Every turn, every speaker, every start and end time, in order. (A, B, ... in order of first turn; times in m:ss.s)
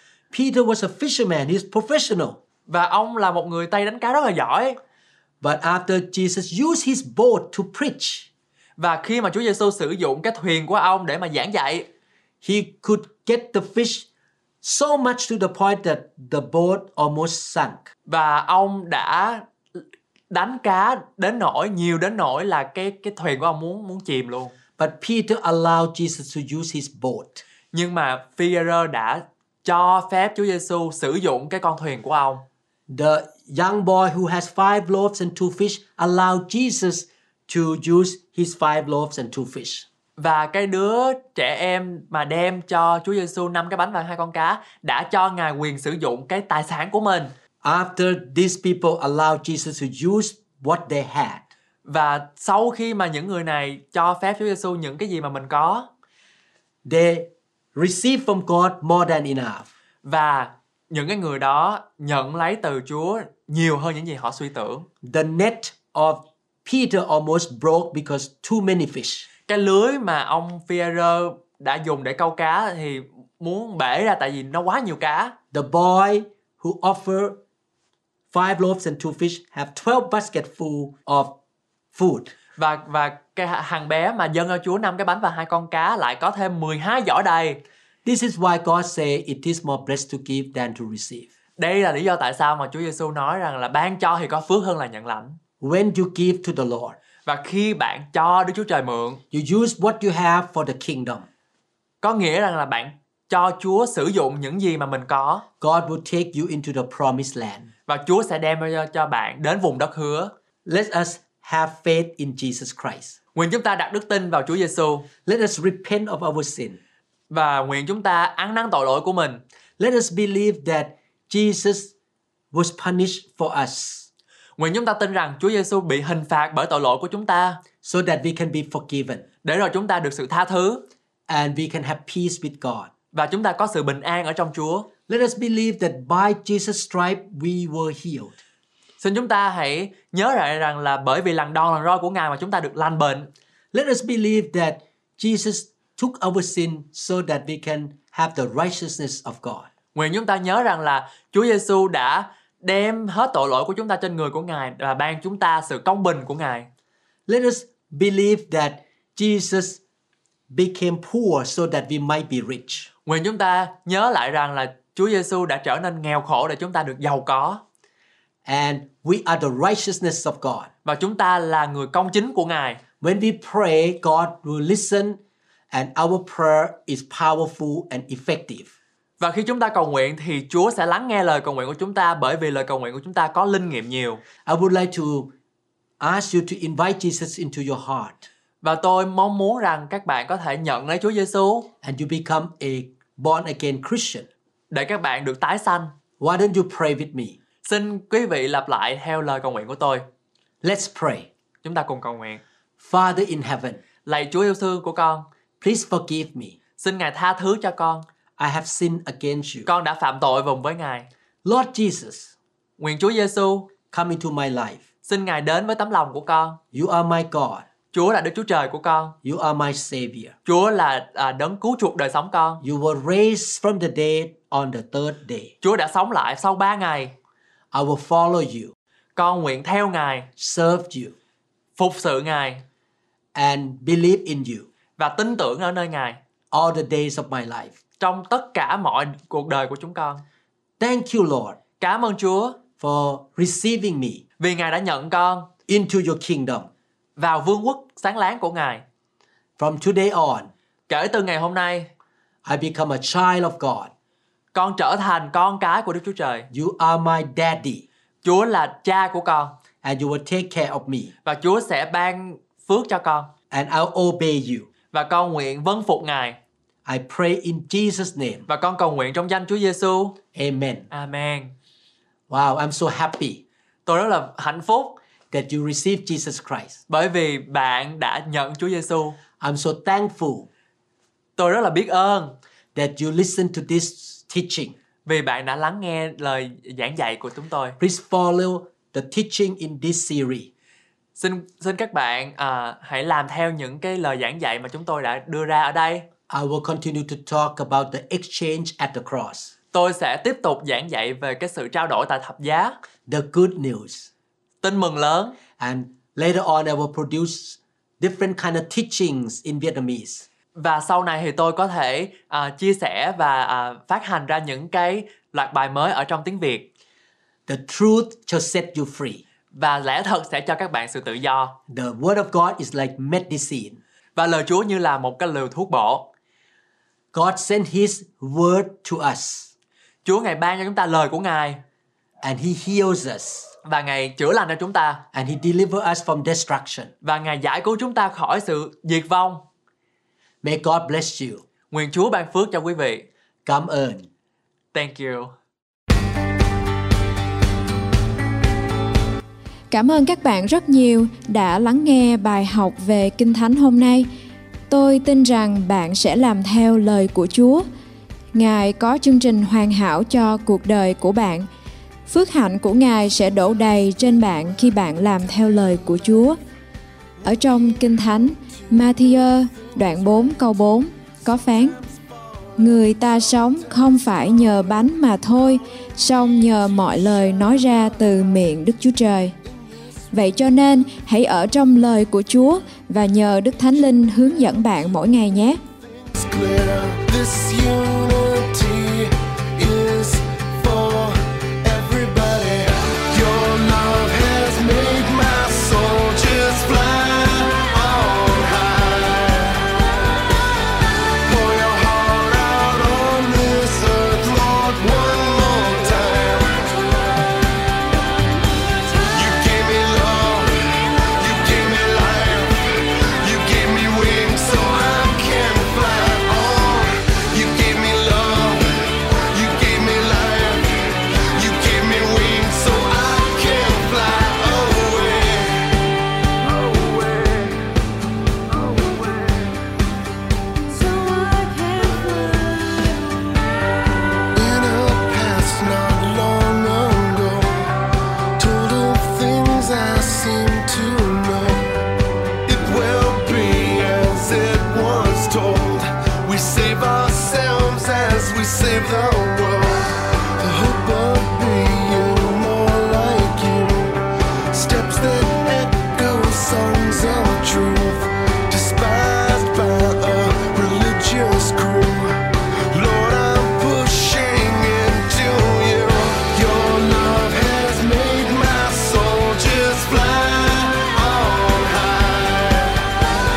0:00.3-0:02.4 A
0:02.7-0:04.8 B
0:05.4-0:08.3 A
0:08.8-0:11.9 B
0:12.4-0:14.0 A
0:14.6-0:17.9 A
0:18.1-0:19.4 B
0:20.3-0:24.5 B
0:24.8-0:27.4 A
0:27.7-0:32.4 B
0:32.9-0:39.9 A
0:40.2-0:47.3 B
0:47.6-0:51.4 A
0:51.9-0:55.9 B
0:56.8-0:59.7 A
1:00.0-1:04.9 B
1:05.0-1:09.3 A
1:09.5-1:15.3 B
1:15.5-1:17.4 A
1:18.3-1:21.3 A
1:21.9-1:22.3 A
1:22.6-1:27.6 B
1:28.0-1:31.3 A
1:31.6-1:35.4 B
1:35.6-1:37.0 A
1:37.2-1:39.2 B
1:39.3-1:41.3 A
1:42.0-1:45.4 B
1:45.6-1:47.7 A
1:47.9-1:50.3 B
1:50.6-1:53.2 A
1:53.3-1:55.1 B
1:55.2-1:56.8 A
1:57.3-1:59.4 B
1:59.8-2:01.9 A
2:02.5-2:04.1 A
2:04.6-2:07.6 B
2:07.8-2:09.2 A
2:09.4-2:10.8 B
2:11.3-2:12.9 A
2:13.1-2:14.9 B
2:15.1-2:18.4 A
2:19.0-2:23.3 B
2:23.7-2:29.7 A
2:29.9-2:36.7 B
2:37.3-2:39.8 A
2:40.5-2:42.9 A
2:43.0-2:47.6 B
2:48.4-2:50.7 A
2:50.8-2:52.8 B
2:53.0-2:55.2 A
2:55.7-2:58.7 A
2:59.2-3:04.2 B
3:04.4-3:05.3 A
3:06.0-3:08.2 A
3:08.6-3:11.7 B
3:11.8-3:14.3 A
3:14.7-3:15.9 B
3:16.2-3:17.4 A
3:17.6-3:20.0 B
3:20.6-3:21.3 A
3:21.6-3:22.4 B
3:22.8-3:23.8 A
3:24.0-3:25.3 B
3:25.6-3:26.6 A
3:26.8-3:28.0 B
3:28.4-3:29.7 A
3:29.6-3:31.1 B
3:31.4-3:32.3 A
3:32.8-3:33.7 B
3:33.9-3:34.8 A
3:35.0-3:36.6 B
3:36.7-3:37.6 A
3:37.9-3:39.1 B
3:39.2-3:40.3 A
3:40.4-3:42.6 B
3:42.6-3:45.5 A
3:45.6-3:47.1 B
3:47.7-3:48.7 A
3:49.2-3:50.3 B
3:50.4-3:51.2 A
3:51.8-3:52.6 B
3:53.3-3:54.7 A
3:55.0-3:56.2 B
3:56.5-3:57.7 A
3:58.0-4:00.2 B
4:00.8-4:01.6 A
4:01.8-4:02.6 B
4:02.8-4:04.2 A
4:04.4-4:05.5 B
4:05.7-4:06.7 A
4:07.2-4:08.8 B
4:09.6-4:10.5 A
4:10.9-4:11.9 B
4:12.4-4:13.9 A
4:14.5-4:16.5 B
4:16.5-4:17.8 A
4:18.2-4:19.5 B
4:19.8-4:21.1 A
4:21.2-4:23.3 B
4:23.5-4:24.7 A
4:24.9-4:26.4 B
4:26.8-4:28.4 A
4:28.5-4:30.2 B
4:30.3-4:30.9 A
4:30.9-4:31.5 B
4:32.3-4:33.4 A
4:33.9-4:35.0 B
4:35.3-4:36.8 A
4:36.9-4:39.2 B
4:39.4-4:40.5 A
4:41.4-4:42.4 B
4:42.7-4:44.7 A
4:45.0-4:47.8 B
4:47.8-4:50.5 A
4:51.2-4:56.1 B
4:56.3-4:59.5 A
4:59.7-5:02.7 B
5:03.1-5:04.1 A
5:04.6-5:05.4 B
5:05.6-5:10.3 A
5:10.6-5:16.7 B
5:17.5-5:19.2 A
5:19.5-5:21.5 B
5:21.7-5:23.8 A
5:24.2-5:26.1 B
5:27.1-5:29.5 A
5:30.0-5:31.6 B
5:32.2-5:33.5 A
5:33.6-5:35.0 B
5:35.1-5:36.9 A
5:37.0-5:39.4 B
5:40.4-5:41.4 A
5:41.7-5:43.1 B
5:43.4-5:44.1 A
5:44.7-5:45.3 B
5:49.7-5:54.1 C
5:54.7-5:57.6 C
5:58.3-6:01.5 C
6:02.1-6:06.4 C
6:07.2-6:11.8 C
6:12.6-6:19.3 C
6:20.1-6:25.6 C
6:26.0-6:39.8 D
6:41.2-6:46.8 D
6:49.0-7:05.8 D
7:06.4-7:07.6 D
7:08.6-7:09.5 D
7:10.9-7:12.6 D
7:14.3-7:17.8 D
7:18.4-7:21.8 D
7:22.4-7:52.8 D